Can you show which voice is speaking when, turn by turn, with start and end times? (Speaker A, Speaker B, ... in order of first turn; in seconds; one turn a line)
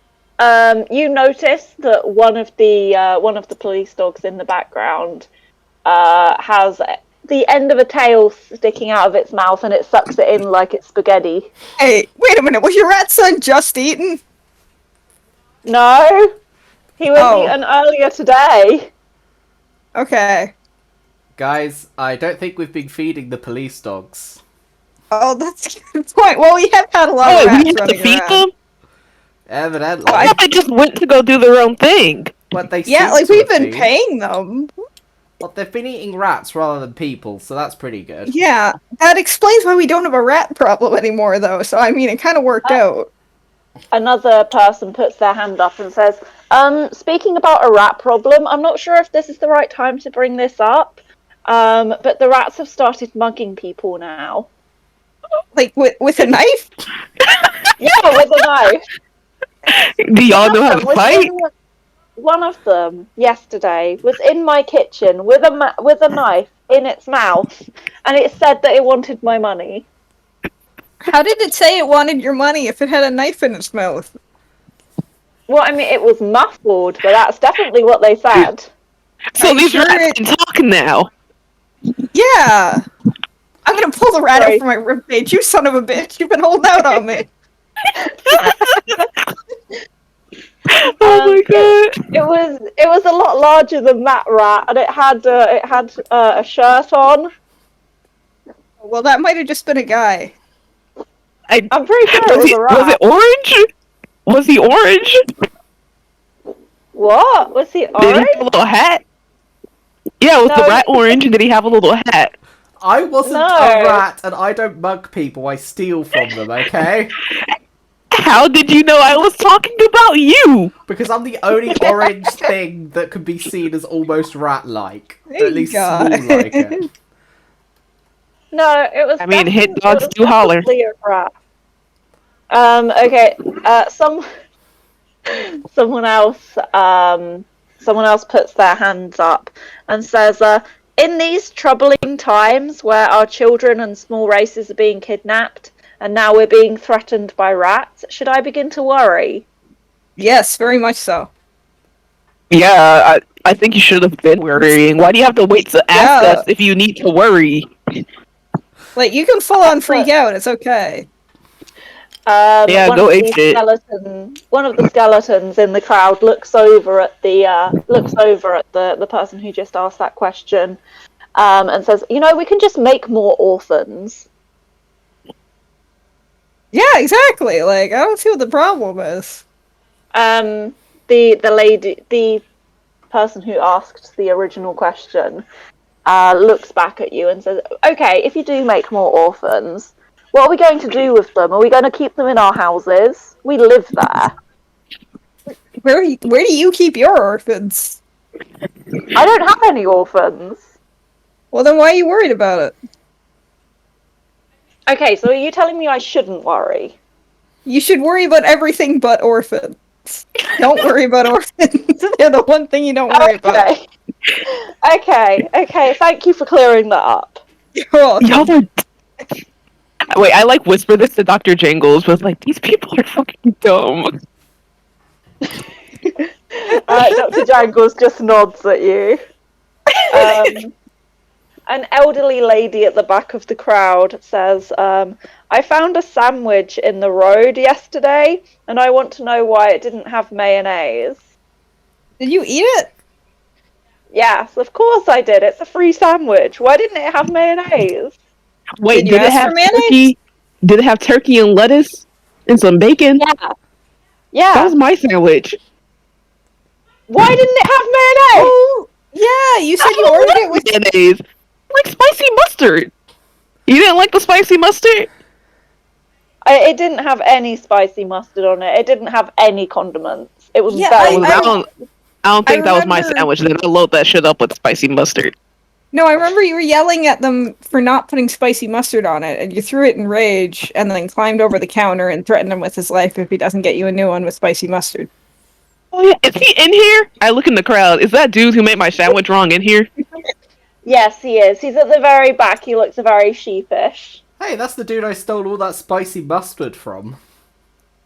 Speaker A: 0.4-5.3
Speaker A: 5.9-11.5
Speaker B: 11.8-14.2
Speaker A: 15.6-16.3
Speaker A: 17.0-18.9
Speaker B: 17.2-17.6
Speaker B: 19.9-20.5
Speaker C: 21.4-24.4
Speaker B: 25.1-28.4
Speaker D: 27.2-28.5
Speaker C: 29.5-30.4
Speaker B: 30.1-30.4
Speaker D: 30.2-32.3
Speaker C: 32.5-33.9
Speaker B: 32.8-34.7
Speaker C: 35.4-38.3
Speaker B: 38.3-43.1
Speaker A: 43.9-54.5
Speaker B: 55.5-56.7
Speaker A: 57.8-58.8
Speaker D: 59.7-61.3
Speaker A: 60.4-61.5
Speaker A: 62.2-67.5
Speaker A: 68.0-69.9
Speaker B: 71.0-74.1
Speaker A: 75.5-78.7
Speaker D: 79.3-81.1
Speaker B: 79.4-80.2
Speaker B: 82.1-82.8
Speaker B: 83.6-87.3
Speaker A: 84.3-84.6
Speaker D: 88.3-89.0
Speaker D: 90.7-91.9
Speaker A: 91.0-97.3
Speaker B: 98.8-100.3
Speaker D: 101.5-103.6
Speaker A: 101.7-103.0
Speaker D: 104.2-105.2
Speaker A: 106.9-108.4
Speaker D: 108.0-109.0
Speaker D: 110.2-112.3
Speaker A: 110.4-111.2
Speaker C: 112.8-117.1
Speaker A: 113.2-114.0
Speaker D: 118.1-120.7
Speaker C: 120.9-126.8
Speaker B: 125.3-126.8
Speaker A: 128.5-131.3
Speaker D: 129.2-130.7
Speaker A: 132.5-134.2
Speaker A: 135.3-149.4
Speaker B: 150.2-151.3
Speaker D: 152.5-157.7
Speaker B: 155.9-156.4
Speaker B: 158.9-161.1
Speaker A: 159.7-160.1
Speaker A: 162.2-170.8
Speaker D: 162.7-163.6
Speaker A: 171.3-174.3
Speaker B: 176.7-179.4
Speaker A: 180.1-182.4
Speaker A: 183.1-185.4
Speaker A: 186.1-194.3
Speaker B: 195.5-198.0
Speaker A: 199.2-200.6
Speaker B: 201.5-202.7
Speaker A: 204.9-207.0
Speaker B: 207.7-213.7
Speaker A: 213.1-213.8
Speaker A: 214.5-217.4
Speaker B: 217.8-218.5
Speaker D: 218.2-218.7
Speaker D: 220.1-224.1
Speaker A: 226.6-229.2
Speaker B: 229.9-230.5
Speaker A: 230.1-230.7
Speaker A: 231.7-241.2
Speaker B: 242.2-242.9
Speaker A: 244.1-248.2
Speaker D: 248.8-253.2
Speaker B: 248.9-250.0
Speaker A: 253.2-253.5
Speaker A: 254.3-254.8
Speaker D: 254.5-255.6
Speaker A: 257.1-258.6
Speaker B: 258.3-260.7
Speaker D: 259.9-262.9
Speaker D: 263.7-265.1
Speaker A: 266.4-271.5
Speaker B: 270.7-271.6
Speaker D: 271.0-271.7
Speaker D: 272.2-275.3
Speaker B: 272.4-273.3
Speaker B: 275.9-285.1
Speaker D: 285.9-289.9
Speaker A: 290.8-294.2
Speaker C: 294.4-297.2